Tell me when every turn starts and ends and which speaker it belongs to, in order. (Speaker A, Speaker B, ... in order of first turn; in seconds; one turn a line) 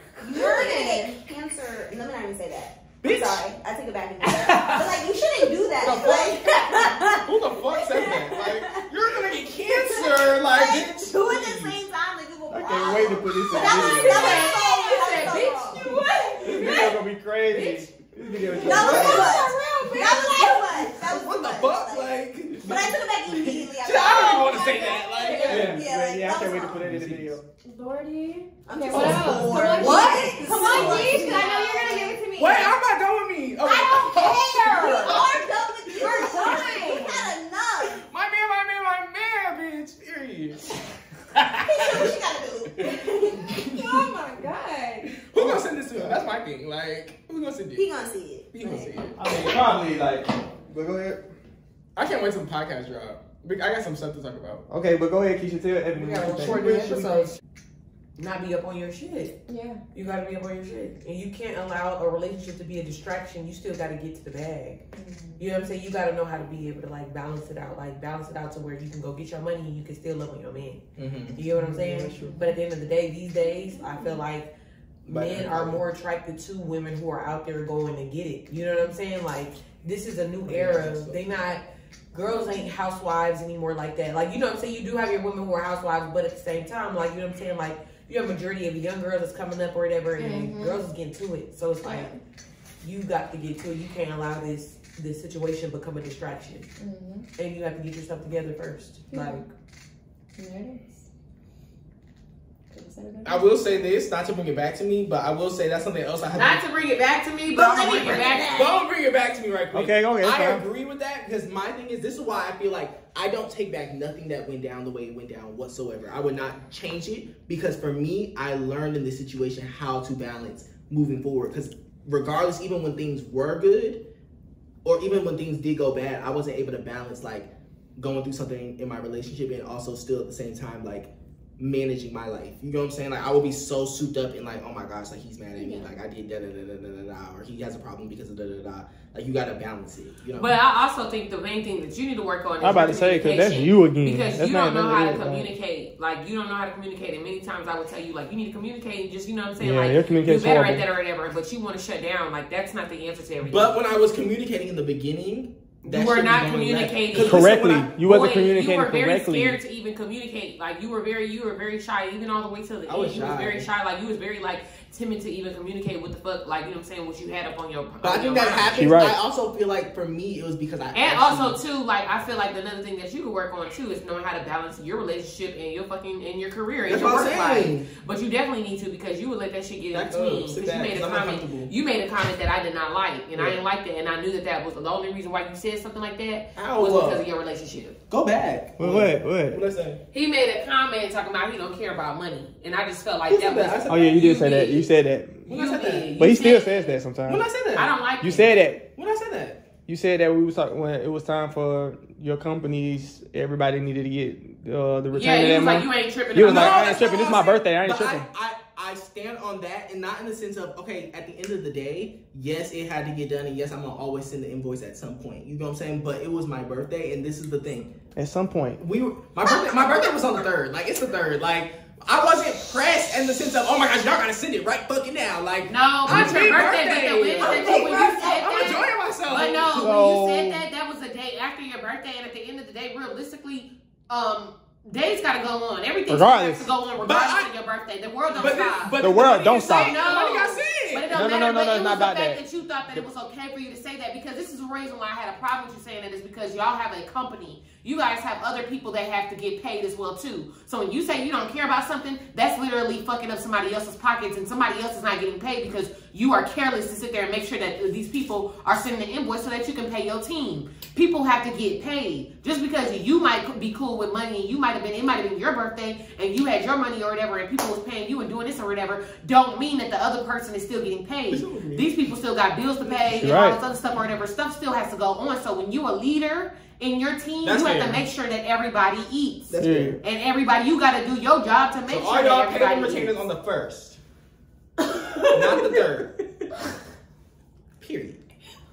Speaker A: 0.2-16.8
Speaker B: 0.3-1.1
Speaker C: 3.0-3.5
Speaker D: 4.3-4.9
Speaker C: 5.8-11.8
Speaker D: 12.5-14.5
Speaker E: 13.5-16.9
Speaker C: 13.9-14.5
Speaker D: 16.4-19.3
Speaker E: 17.5-17.9
Speaker E: 18.5-20.4
Speaker A: 18.6-26.8
Speaker B: 18.6-20.2
Speaker C: 18.7-19.2
Speaker C: 19.9-25.9
Speaker D: 25.5-27.4
Speaker C: 26.8-27.3
Speaker B: 27.6-32.8
Speaker A: 28.6-32.2
Speaker C: 28.9-31.4
Speaker E: 29.0-31.7
Speaker C: 32.3-36.8
Speaker A: 33.9-38.0
Speaker B: 34.2-35.2
Speaker E: 34.5-35.1
Speaker B: 36.0-37.3
Speaker C: 37.9-40.7
Speaker C: 41.3-42.1
Speaker A: 41.6-43.6
Speaker B: 42.8-45.1
Speaker C: 42.9-44.1
Speaker C: 45.2-47.9
Speaker D: 45.4-46.2
Speaker A: 47.8-48.9
Speaker C: 48.5-49.2
Speaker D: 49.2-51.2
Speaker C: 52.0-54.6
Speaker D: 54.7-57.2
Speaker E: 56.0-57.4
Speaker E: 58.2-59.4
Speaker B: 59.5-59.8
Speaker E: 59.9-64.8
Speaker B: 64.9-65.4
Speaker E: 65.4-70.8
Speaker C: 71.0-71.4
Speaker E: 71.4-74.5
Speaker D: 71.5-72.4
Speaker B: 72.2-72.6
Speaker A: 73.8-74.1
Speaker E: 75.0-92.1
Speaker C: 75.1-75.8
Speaker C: 80.5-81.2
Speaker B: 82.2-82.7
Speaker B: 90.2-90.8
Speaker B: 91.8-92.2
Speaker E: 92.8-96.7
Speaker B: 96.8-97.2
Speaker E: 97.4-99.5
Speaker B: 99.1-99.4
Speaker B: 100.4-101.0
Speaker B: 102.7-103.9
Speaker C: 103.2-106.6
Speaker E: 106.3-108.6
Speaker A: 107.5-108.8
Speaker C: 107.8-124.0
Speaker D: 109.7-110.6
Speaker C: 124.8-140.6
Speaker B: 135.6-135.9
Speaker E: 140.3-153.7
Speaker D: 142.6-145.5
Speaker D: 149.6-150.8
Speaker C: 153.4-157.5
Speaker E: 155.8-168.8
Speaker D: 157.1-159.6
Speaker C: 162.9-163.7
Speaker C: 168.0-171.6
Speaker D: 168.8-169.2
Speaker E: 170.9-188.0
Speaker C: 176.9-177.9
Speaker C: 179.9-181.7
Speaker C: 183.3-183.6
Speaker C: 186.6-187.2
Speaker C: 188.1-190.0
Speaker D: 188.8-189.6
Speaker E: 190.1-194.9
Speaker C: 193.3-194.1
Speaker D: 193.9-195.4
Speaker E: 195.5-197.0
Speaker C: 195.5-196.2
Speaker D: 196.2-197.4
Speaker C: 197.2-197.9
Speaker E: 197.7-198.4
Speaker D: 198.2-198.9
Speaker C: 198.9-199.7
Speaker D: 199.9-208.3
Speaker E: 205.1-207.4
Speaker C: 206.4-217.9
Speaker D: 218.2-218.8
Speaker C: 218.8-230.0
Speaker A: 219.4-220.2
Speaker E: 225.7-283.2
Speaker A: 227.4-228.8
Speaker D: 229.8-230.7
Speaker D: 236.1-236.7
Speaker C: 237.0-237.5
Speaker C: 238.3-241.3
Speaker D: 239.0-240.0
Speaker D: 241.1-242.4
Speaker C: 271.3-271.9
Speaker C: 272.8-273.2
Speaker D: 273.2-273.6
Speaker C: 277.4-278.0
Speaker C: 279.5-280.0
Speaker D: 279.6-280.0
Speaker C: 281.9-284.0
Speaker E: 284.9-285.2
Speaker C: 285.3-286.1
Speaker C: 287.8-288.2